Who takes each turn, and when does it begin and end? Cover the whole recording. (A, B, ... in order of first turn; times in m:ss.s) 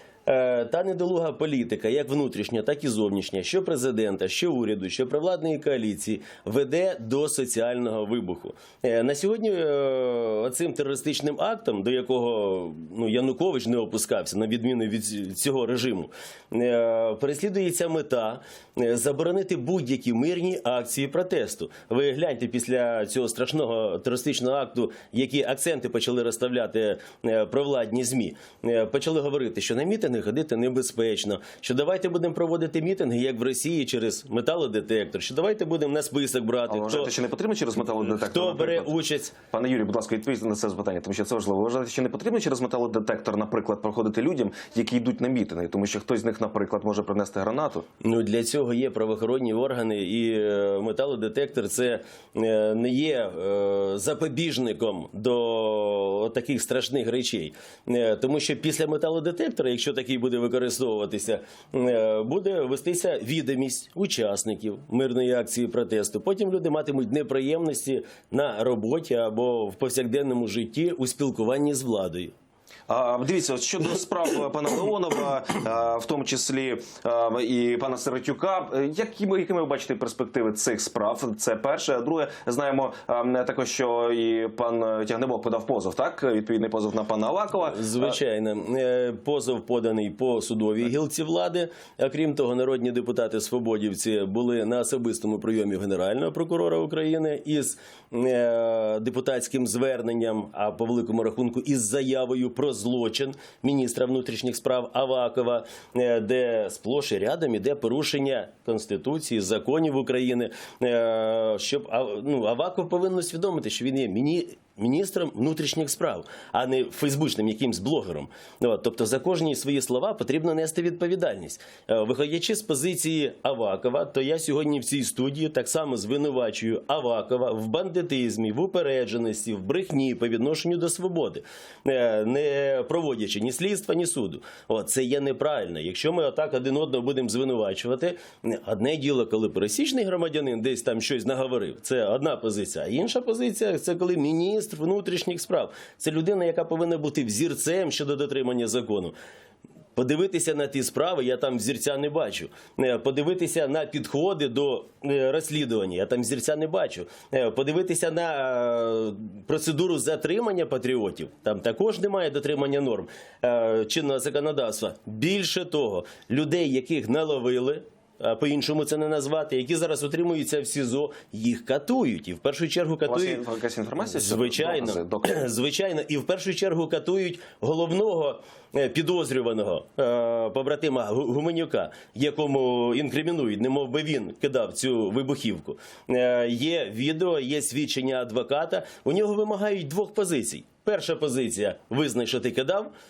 0:00.3-0:37.1 A
0:36.7-0:38.9 B
0:38.0-0:39.4 A
0:39.5-0:47.8 B
0:48.0-1:12.3 A
1:12.9-1:28.2 B
1:27.6-2:29.1 A
2:30.0-2:53.4 A
2:53.1-2:55.4 B
2:54.0-3:12.9 A